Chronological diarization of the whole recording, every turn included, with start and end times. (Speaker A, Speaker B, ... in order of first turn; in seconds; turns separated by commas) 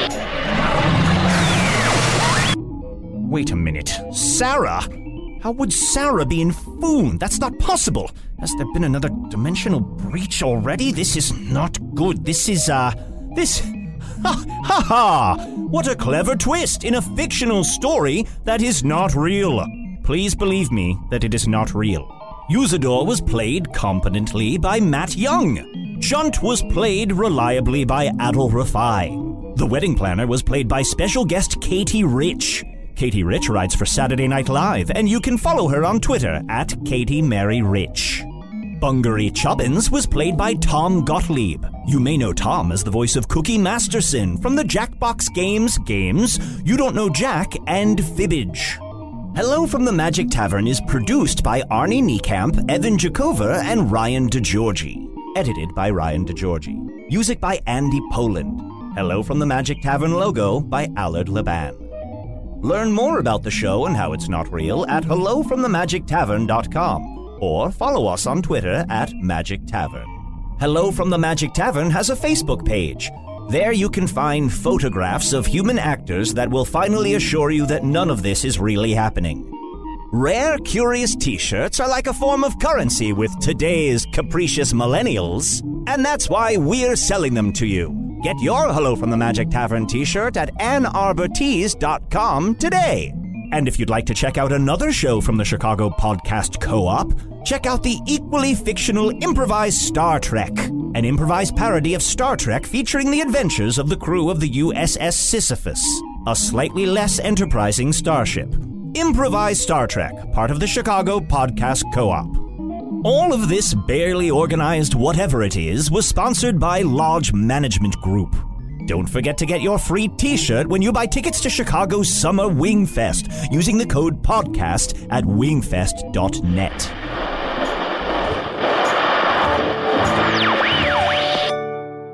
Speaker A: 3.2-38.3, Speaker A: 38.8-48.8, Speaker A: 49.3-61.9, Speaker A: 62.6-79.5, Speaker A: 80.1-112.5, Speaker A: 113.0-127.0